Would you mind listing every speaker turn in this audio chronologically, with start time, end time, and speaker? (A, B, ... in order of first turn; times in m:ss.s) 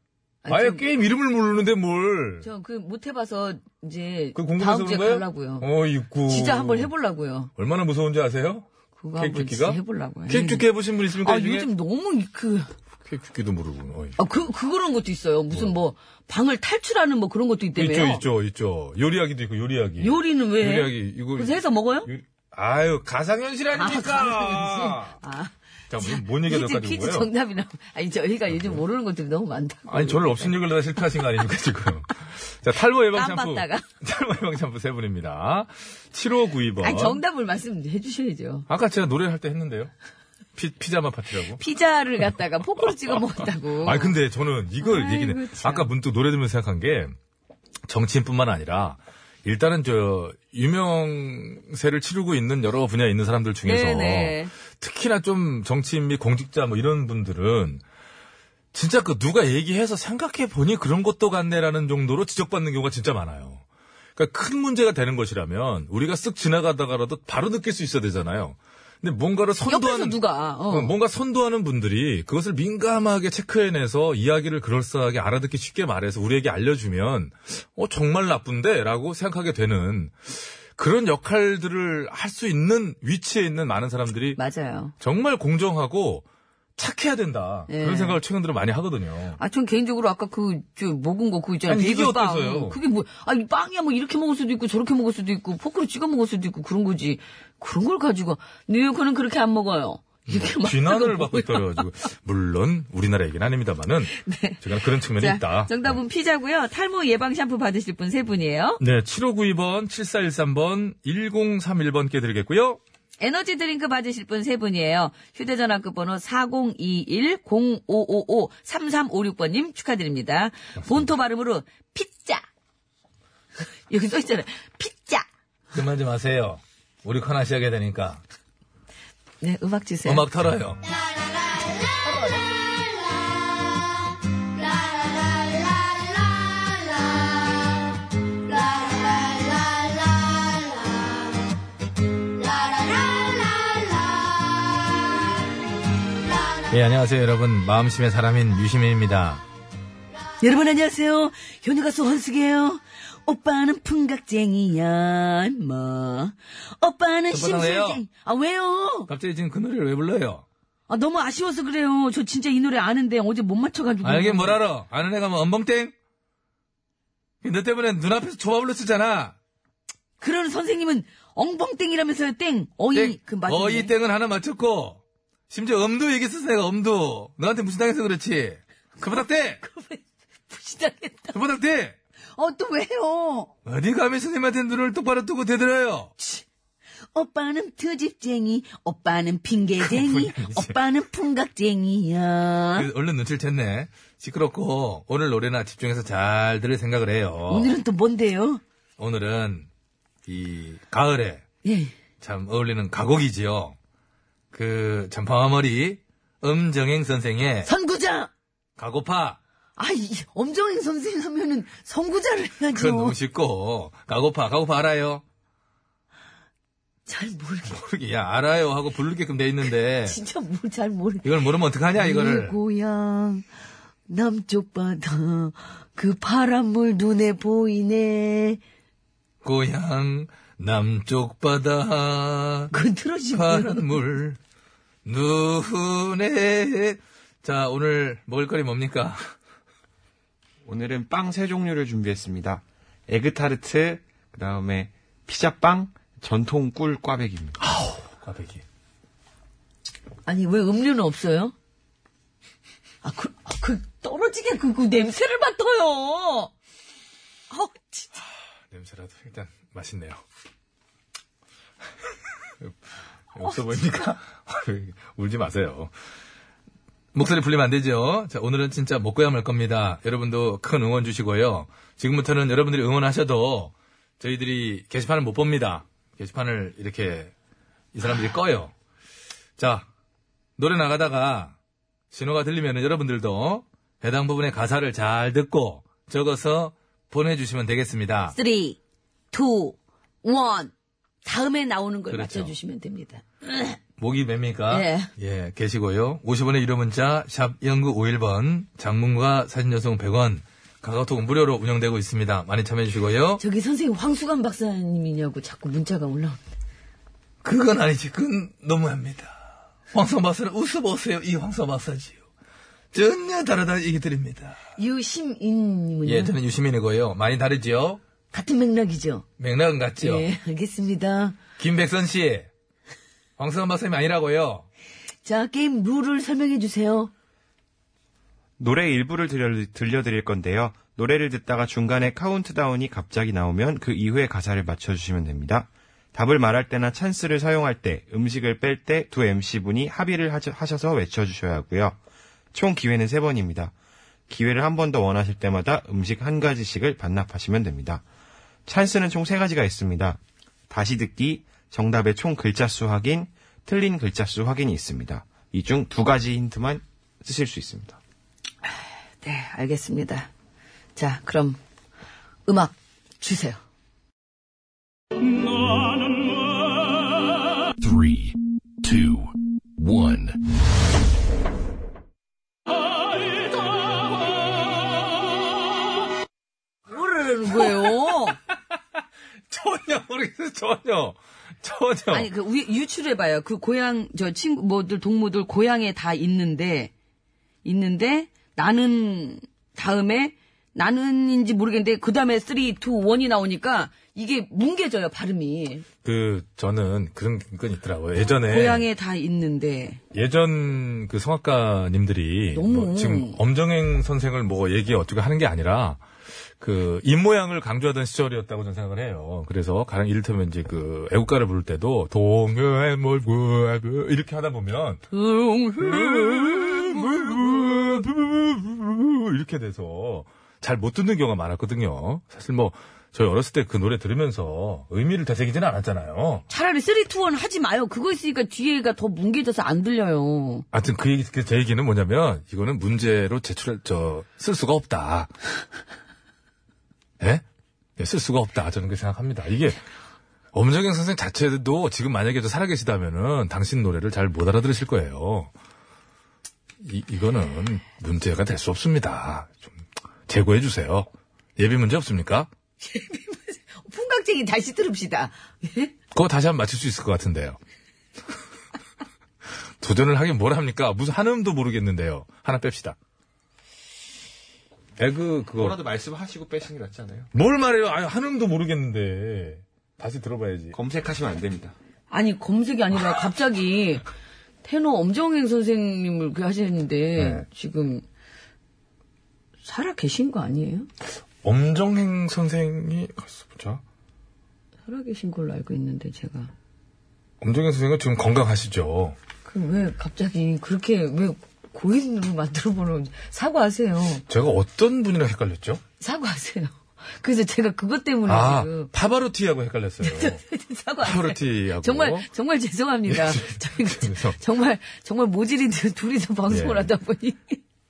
0:00.4-0:00.8 A
0:00.5-0:02.4 B
0:02.4-0:05.7 A
0:04.3-0:06.9 B
0:06.3-0:07.5 A
0:07.6-0:11.7 B
0:09.0-0:10.6 A
0:11.2-0:12.7 A
0:13.0-0:14.2 B
0:14.2-0:18.2 A
0:17.8-0:25.2 B
0:20.0-0:22.1 A
0:23.7-0:30.5 A
0:25.9-0:27.3 B
0:28.5-0:28.8 B
0:29.9-0:37.2 B
0:33.1-0:33.8 A
0:36.8-0:38.7 A
0:38.7-0:39.9 B
0:40.5-0:41.6 B
0:41.6-0:44.1 A
0:42.8-0:43.2 B
0:43.8-0:47.1 B
0:44.8-0:45.9 A
0:47.9-0:57.8 B
0:53.6-0:54.5 A
0:58.7-1:03.6 B
1:04.2-1:24.4 B
1:09.6-1:10.9 A
1:24.4-1:24.9 A
1:25.0-1:26.2 B
1:26.8-1:29.4 B
1:27.7-1:28.2 A
1:29.4-1:41.8 A
1:31.7-1:32.8 B
1:40.3-1:46.0 B
1:44.2-1:48.8 A
1:48.8-1:52.8 B
1:53.2-2:02.4 A
2:03.9-2:05.2 A
2:05.7-2:08.2 B
2:09.4-2:10.2 A
2:10.0-2:10.8 B
2:12.0-2:12.4 A
2:26.7-2:29.4 B
2:30.4-2:39.1 A
2:37.3-2:38.0 B
2:39.1-2:40.4 B
2:40.9-2:44.6 A
2:44.0-2:45.9 B
2:47.4-2:49.4 B
2:50.2-2:53.9 A
2:52.9-2:59.6 B
2:59.0-3:01.4 A
3:01.3-3:02.0 B
3:02.4-3:03.5 A
3:03.6-3:06.1 B
3:06.2-3:06.4 A
3:07.1-3:12.9 A
3:09.8-3:10.8 B
3:12.8-3:17.7 B
3:17.5-3:18.6 A
3:19.0-3:19.7 B
3:20.3-3:21.4 B
3:21.6-3:21.9 A
3:22.2-3:23.8 B
3:24.5-3:27.7 B
3:27.6-3:28.3 A
3:28.8-3:29.4 B
3:29.8-3:33.2 A
3:32.7-3:35.2 B
3:37.1-3:37.8 A
3:37.7-3:40.2 B
3:40.0-3:41.3 A
3:41.2-3:42.6 B
3:42.0-3:43.4 A
3:44.1-3:48.6 A
3:49.4-3:52.7 B
3:52.7-3:54.0 A
3:53.3-3:54.4 B
3:55.0-3:59.3 B
4:00.6-4:07.6 C
4:07.6-4:08.6 B
4:10.2-4:11.5 A
4:13.0-4:16.5 A
4:17.5-4:18.1 A
4:18.7-4:20.2 B
4:23.3-4:25.9 B
4:23.4-4:24.0 A
4:27.1-4:37.3 B
4:37.9-4:38.7 B
4:39.6-4:39.9 B
4:40.6-4:41.5 B
4:42.1-4:48.3 B
4:48.3-4:48.8 A
4:49.3-4:50.7 A
4:51.2-4:53.8 A
4:52.1-4:52.5 B
4:54.0-5:03.4 B
4:54.7-4:55.1 A
5:03.4-5:06.4 A
5:07.4-5:12.2 B
5:12.9-5:14.6 B
5:14.8-5:16.3 A
5:16.0-5:18.0 B
5:18.3-5:19.2 A
5:19.4-5:20.3 B
5:20.0-5:21.4 A
5:21.6-5:22.5 B
5:23.4-5:24.6 B
5:25.2-5:27.1 A
5:28.6-5:42.0 C
5:42.5-5:43.7 C
5:44.3-5:48.0 C
5:48.6-5:58.0 C
5:59.2-6:00.3 A
6:01.0-6:01.6 A
6:02.4-6:03.6 A
6:07.8-6:10.4 D
6:16.9-6:18.4 A
6:17.6-6:17.9 B
6:19.5-6:22.3 B
6:22.1-6:26.9 A
6:27.6-6:35.8 A
6:36.0-6:38.8 B
6:38.5-6:40.0 A
6:40.1-6:46.0 B
6:42.5-6:43.4 A
6:46.6-6:55.0 B
6:55.1-6:57.8 A
6:55.8-7:06.4 B
7:06.5-7:10.6 A
7:10.7-7:15.3 B
7:17.2-7:17.4 B
7:18.0-7:19.8 B
7:20.5-7:25.5 B
7:26.8-7:32.5 B
7:32.8-7:35.9 A
7:36.1-7:37.6 B
7:39.8-7:43.0 B
7:45.0-7:45.8 B
7:45.6-7:47.3 C
7:47.3-7:50.8 B
7:50.7-7:51.7 C
7:52.1-7:54.0 A
7:54.6-7:58.0 A
7:57.2-7:57.4 B
7:59.6-8:00.9 A
8:01.4-8:03.8 B
8:04.9-8:06.5 A
8:07.4-8:09.2 B
8:09.4-8:14.2 A
8:14.3-8:15.8 B
8:16.0-8:18.9 A
8:18.2-8:20.4 B
8:20.0-8:27.6 A
8:21.0-8:22.3 B
8:23.1-8:24.4 B
8:26.5-8:26.9 B